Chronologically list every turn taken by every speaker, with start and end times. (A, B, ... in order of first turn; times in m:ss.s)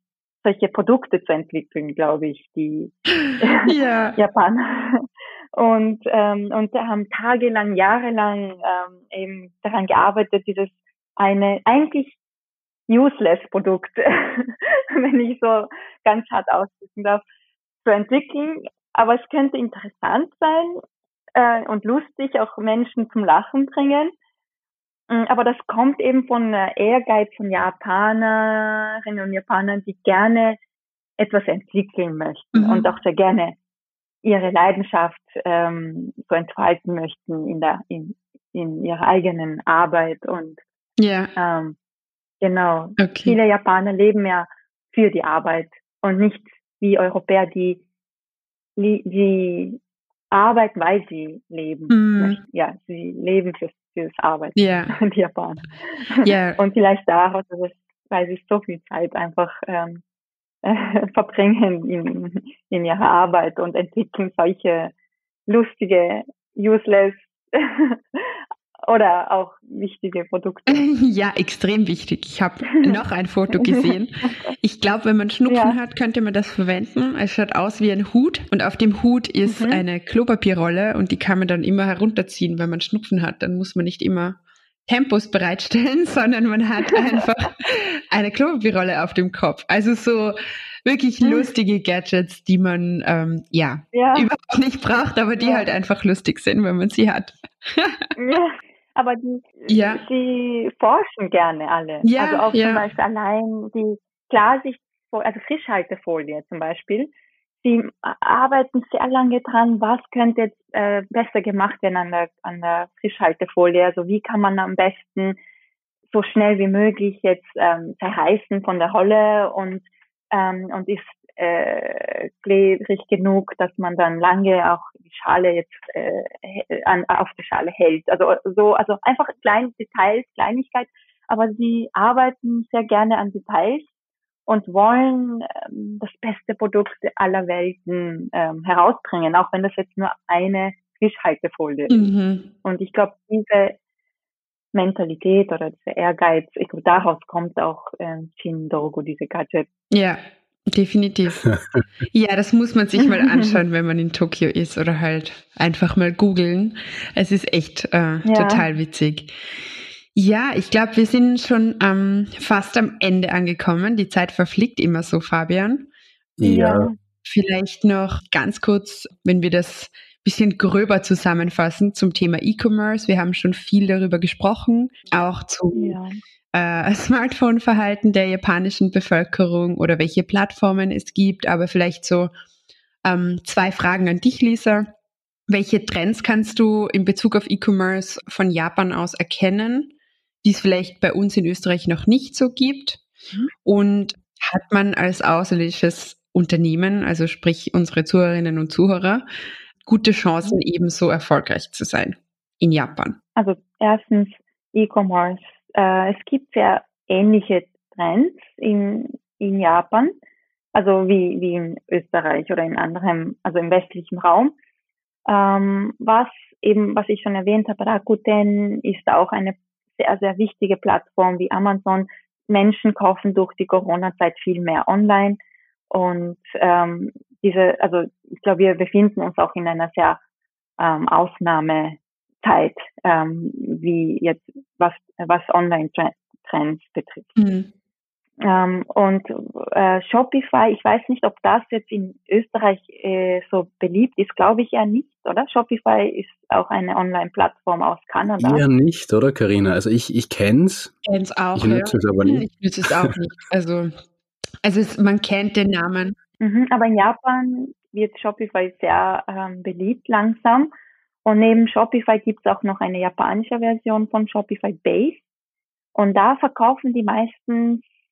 0:00.4-0:12.2 A
0:03.2-0:04.2 B
0:12.9-0:17.2 A
0:17.8-0:20.8 A
0:21.4-0:24.1 A
0:25.1-0:30.6 A
0:31.2-0:33.6 A
0:32.5-0:32.9 B
0:34.2-0:40.6 A
0:41.0-0:41.3 B
0:41.4-0:41.8 A
0:42.4-0:47.8 A
0:43.0-0:43.4 B
0:48.8-0:49.8 A
0:50.3-1:00.0 A
0:51.9-0:52.4 B
0:54.6-0:55.0 B
0:56.2-0:56.6 B
1:00.6-1:04.9 A
1:05.5-1:10.8 A
1:10.7-1:38.1 B
1:13.5-1:14.5 A
1:15.5-1:15.8 A
1:19.4-1:19.8 A
1:31.2-1:31.5 A
1:33.9-1:34.3 A
1:35.4-1:35.7 A
1:38.2-1:47.1 A
1:39.7-1:40.0 B
1:42.0-1:42.9 B
1:47.6-1:55.4 A
1:56.1-2:13.9 A
2:14.5-2:22.1 A
2:21.9-2:22.5 B
2:22.6-2:23.8 A
2:24.7-2:29.7 A
2:29.9-2:30.2 B
2:30.7-2:31.5 B
2:31.5-2:31.8 C
2:32.1-2:39.3 B
2:33.0-2:33.6 A
2:38.2-2:38.6 A
2:40.1-2:45.9 B
2:46.4-2:46.9 C
2:46.4-2:47.0 A
2:47.2-2:56.0 B
2:55.8-2:56.2 A
2:56.5-3:02.3 B
3:03.0-3:04.9 B
3:05.5-3:09.9 B
3:10.4-3:13.0 B
3:13.6-3:19.2 B
3:19.8-3:23.2 B
3:23.4-3:30.1 A
3:30.8-3:34.5 A
3:35.3-3:45.4 A
3:45.9-3:50.2 A
3:50.8-3:57.4 A
3:57.4-3:57.7 B
3:58.4-4:08.6 A
4:08.4-4:11.0 C
4:11.1-4:13.9 B
4:11.6-4:13.2 C
4:14.6-4:16.2 B
4:16.4-4:20.7 A
4:21.2-4:25.2 A
4:26.0-4:27.8 A